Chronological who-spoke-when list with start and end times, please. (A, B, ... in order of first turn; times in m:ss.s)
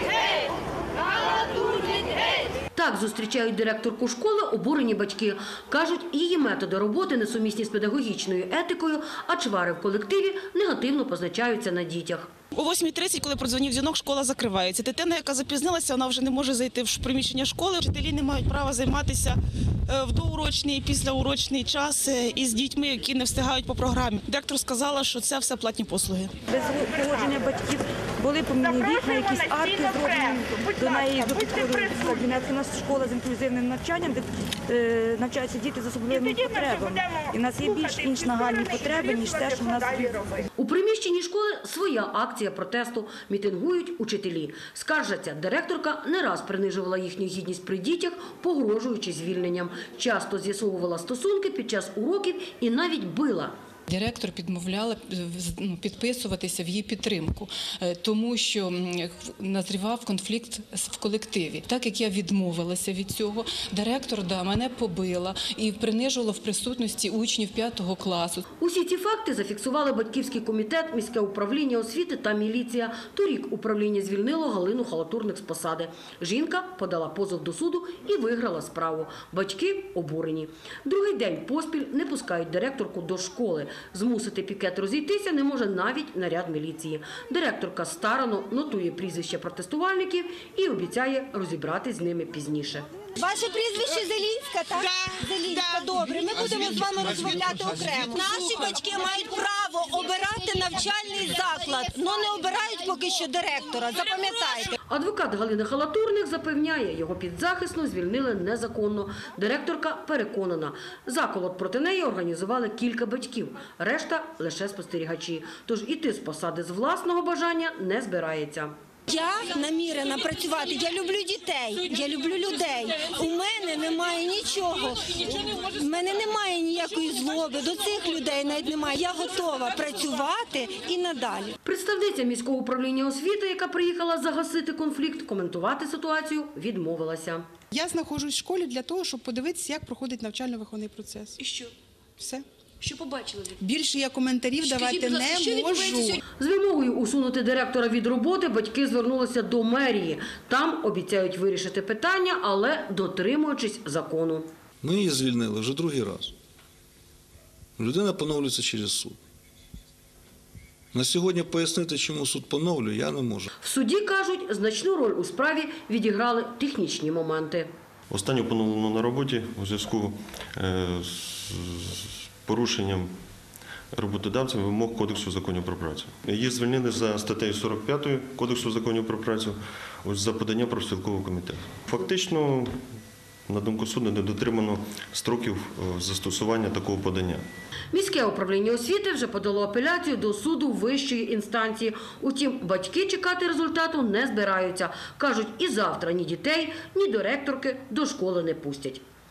0:02.7-0:12.3 A
0:12.5-0:26.4 B
0:26.5-0:40.4 C
0:40.6-0:53.5 A
0:53.9-1:08.4 D
1:08.6-1:32.9 A
1:33.2-1:44.8 E
1:44.8-1:58.7 A
1:59.1-2:11.6 E
2:11.6-2:17.5 A
2:17.7-2:21.6 F
2:22.2-2:22.4 F
2:22.8-2:23.4 A
2:23.6-2:26.2 F
2:26.4-2:34.5 A
2:34.8-2:36.3 G
2:37.8-2:39.2 G
2:40.9-2:43.5 G
2:43.6-2:47.7 A
2:48.1-2:53.1 H
2:53.9-3:02.8 H
3:03.5-3:07.4 H
3:07.9-3:19.0 A